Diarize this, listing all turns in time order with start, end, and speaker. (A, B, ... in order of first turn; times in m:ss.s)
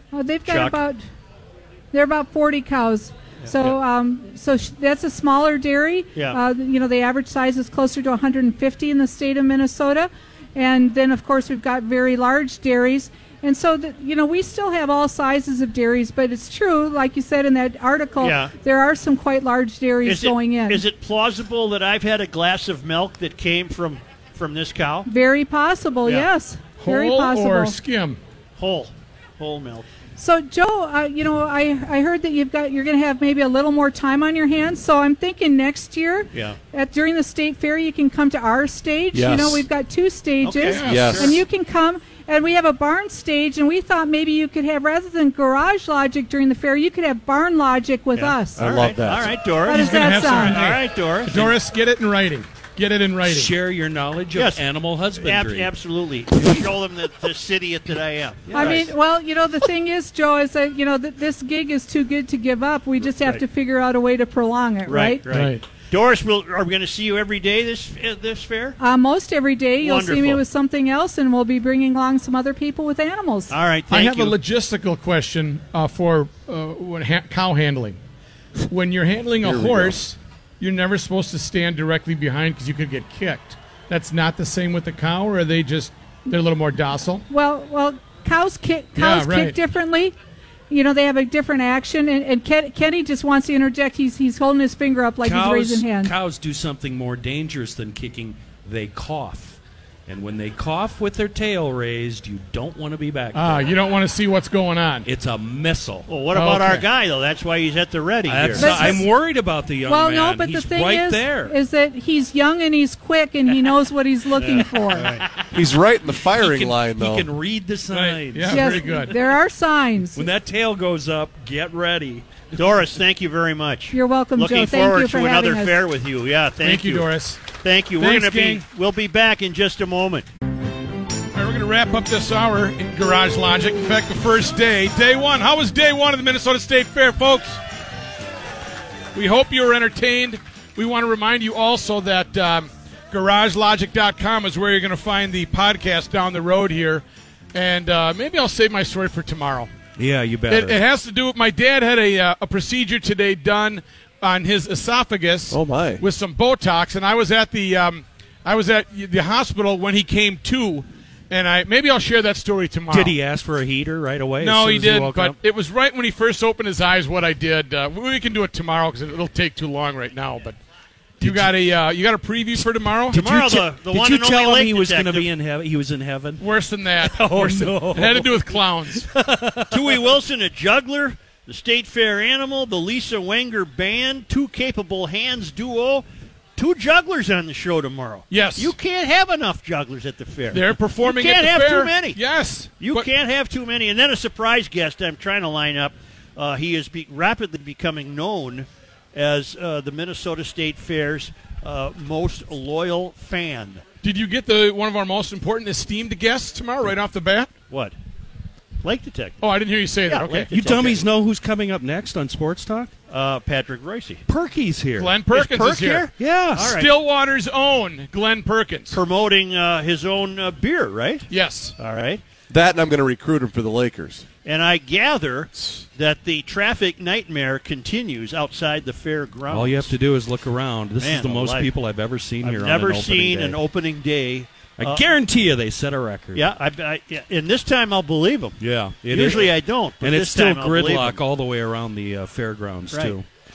0:00.1-0:01.0 A
0:00.4-0:00.8 B
0:01.9-0:20.8 A
0:03.4-0:03.8 B
0:06.1-0:06.4 B
0:18.2-0:18.5 B
0:20.0-0:25.1 B
0:25.0-0:27.8 A
0:26.8-0:28.2 C
0:28.6-0:29.8 B
0:30.2-0:48.7 A
0:36.3-0:36.6 B
0:39.1-0:39.6 D
0:40.4-0:41.4 B
0:40.6-0:41.2 C
0:40.9-0:41.3 D
0:48.2-0:51.5 B
0:48.6-0:49.4 D
0:49.7-0:50.6 A
0:49.7-0:53.5 C
0:53.2-0:55.7 E
0:54.3-0:58.9 B
0:58.5-0:58.8 E
0:58.5-1:05.2 A
1:03.2-1:03.4 B
1:04.8-1:08.8 B
1:05.2-1:05.6 C
1:08.8-1:13.6 A
1:09.8-1:10.4 B
1:13.5-1:14.4 B
1:13.9-1:18.0 C
1:18.6-1:27.2 C
1:19.4-1:20.0 D
1:27.3-1:30.1 A
1:28.9-1:29.6 C
1:30.7-1:36.1 A
1:35.2-1:43.6 E
1:43.3-1:45.1 C
1:45.0-1:46.1 E
1:46.1-1:49.0 B
1:46.3-1:46.8 C
1:48.3-1:51.6 E
1:48.6-1:49.1 A
1:49.8-1:55.2 A
1:54.4-1:55.2 B
1:55.5-1:57.3 D
1:56.2-1:59.1 E
1:57.9-1:59.1 C
1:58.5-2:00.3 A
2:00.1-2:02.2 E
2:02.6-2:07.1 B
2:03.9-2:05.8 A
2:06.6-2:07.4 C
2:07.6-2:10.2 B
2:08.0-2:08.6 C
2:11.3-2:17.6 C
2:19.1-2:29.7 C
2:30.0-2:30.8 E
2:30.5-2:43.2 C
2:35.5-2:36.0 D
2:42.9-2:45.4 E
2:44.4-2:50.6 C
2:51.2-2:53.2 C
2:51.2-2:51.5 E
2:53.1-2:55.3 B
2:53.1-2:56.4 E
2:56.4-2:59.1 C
2:57.0-2:58.3 E
2:59.0-3:00.1 E
2:59.7-3:06.0 B
3:06.6-3:12.2 B
3:08.3-3:08.7 C
3:10.5-3:13.1 C
3:12.8-3:23.8 B
3:24.0-3:27.5 C
3:28.8-3:29.4 B
3:29.4-3:30.5 C
3:30.0-3:31.1 B
3:30.4-3:32.9 E
3:33.1-3:34.2 B
3:34.3-3:35.2 E
3:34.9-3:36.1 C
3:35.3-3:36.9 B
3:36.1-3:36.7 E
3:36.6-3:39.0 C
3:38.9-3:42.2 B
3:41.3-3:41.7 C
3:42.5-3:44.2 D
3:44.4-3:50.0 B
3:49.5-3:53.6 E
3:51.0-3:51.7 B
3:52.4-3:55.0 B
3:54.8-3:56.4 E
3:56.3-4:01.2 B
3:58.6-4:03.2 E
4:02.9-4:03.2 B